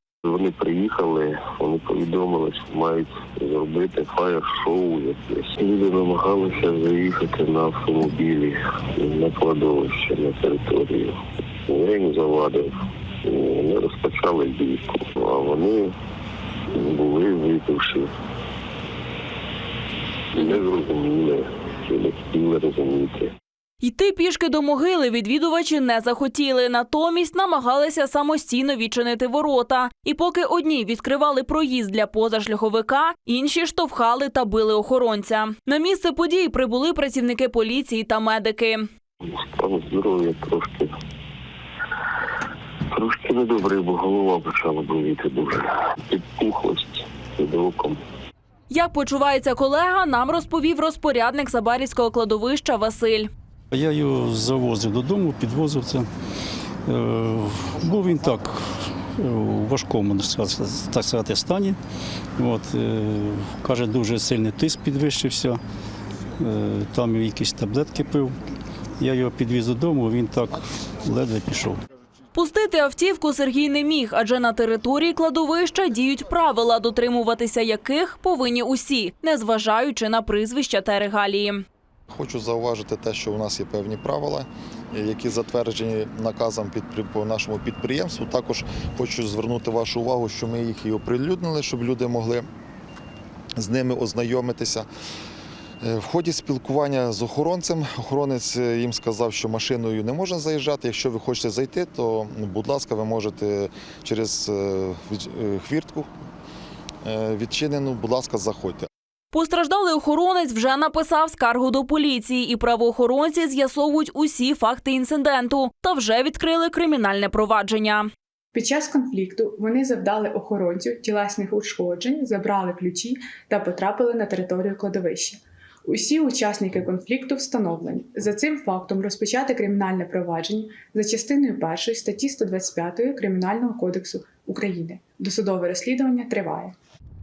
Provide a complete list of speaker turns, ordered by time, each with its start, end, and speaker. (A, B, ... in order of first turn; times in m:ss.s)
0:00.2-0:12.7 A
0:13.2-0:16.0 A
0:16.7-0:18.1 A
0:20.3-0:23.3 A
0:23.8-0:38.9 B
0:39.4-0:40.9 A
0:42.9-0:48.0 A
0:48.7-0:53.3 B
0:53.7-0:56.1 C
0:56.9-1:01.8 C
1:02.4-1:05.6 C
1:06.4-1:08.4 C
1:09.0-1:11.8 C
1:12.3-1:21.6 B
1:22.1-1:32.5 D
1:33.6-1:34.9 D
1:35.8-1:46.1 D
1:47.0-1:48.9 D
1:49.3-1:58.1 B
1:58.5-2:16.7 E